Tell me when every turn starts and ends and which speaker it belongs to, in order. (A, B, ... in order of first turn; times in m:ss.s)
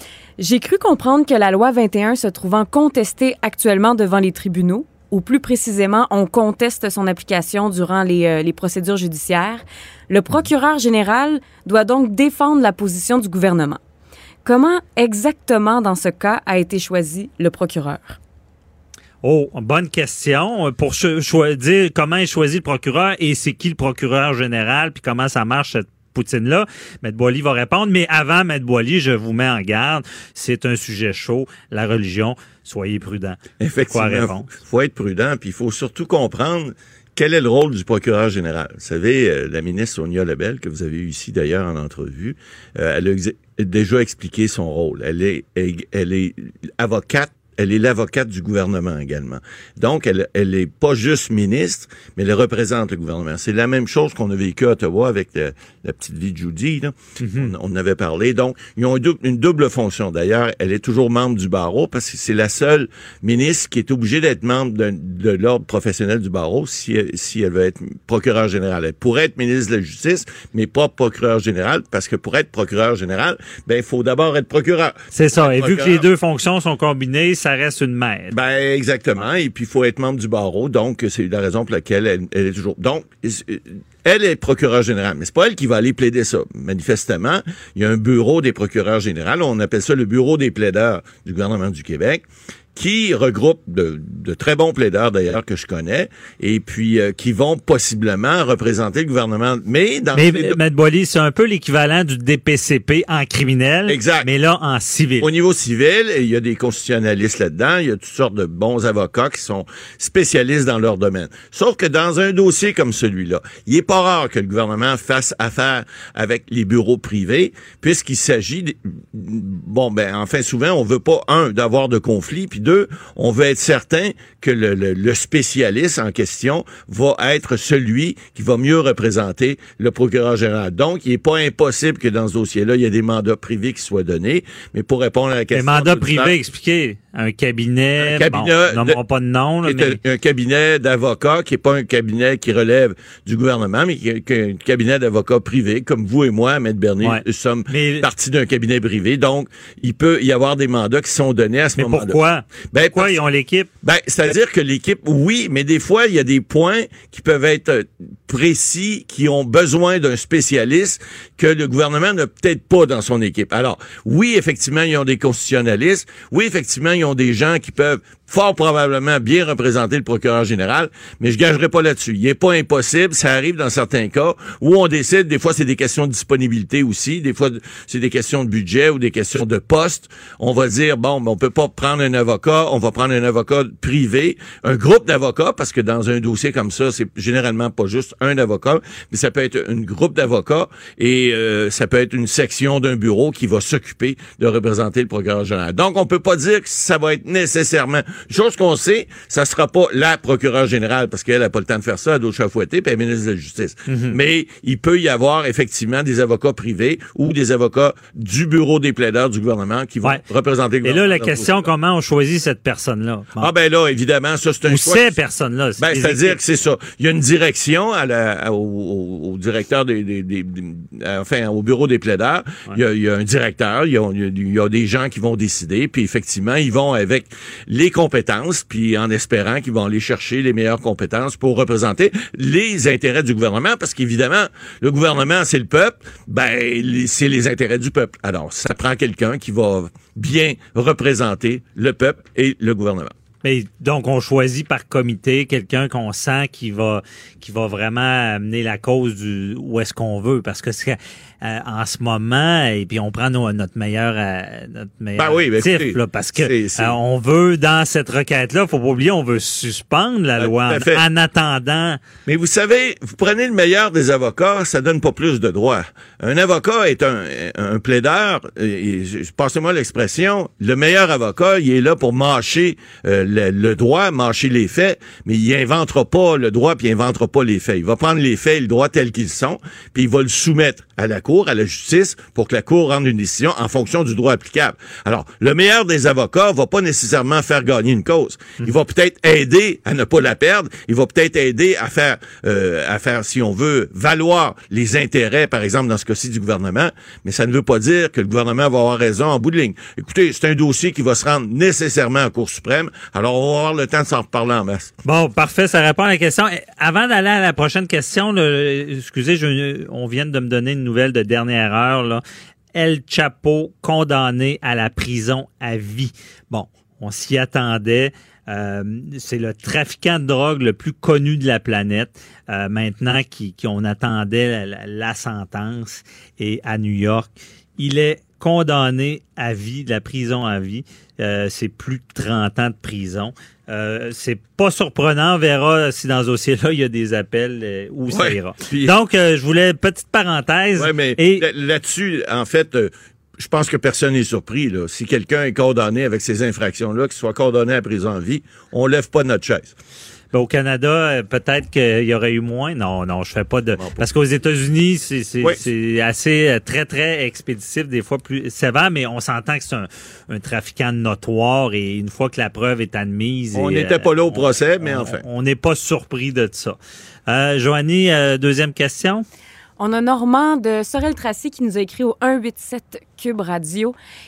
0:00.4-0:13.8 A
0:14.4-0:18.2 A
0:19.2-0:33.4 B
0:33.6-1:16.0 C
0:33.9-0:34.6 B
0:57.2-0:57.5 B
1:15.1-1:18.3 B
1:18.3-1:40.6 C
1:40.1-1:45.3 B
1:43.9-1:44.3 C
1:45.2-2:16.4 C
2:15.5-2:20.0 B
2:18.0-2:19.0 C
2:19.6-2:32.2 C
2:27.0-2:28.1 B
2:31.8-2:33.7 B
2:32.7-2:33.2 C
2:33.8-3:31.7 C
3:23.9-3:24.2 B
3:30.8-3:33.5 B
3:33.4-3:35.1 C
3:34.7-3:36.4 B
3:35.8-4:03.1 C
4:03.4-4:22.0 B
4:15.2-4:17.0 C
4:20.4-4:21.0 C
4:22.2-5:04.9 C
5:05.0-5:12.2 B
5:12.7-5:41.4 B
5:38.1-5:38.9 C
5:40.8-5:49.7 C
5:50.3-6:06.8 B
5:53.8-5:54.1 C
6:03.5-6:05.2 C
6:07.3-6:09.2 B
6:09.8-6:13.9 A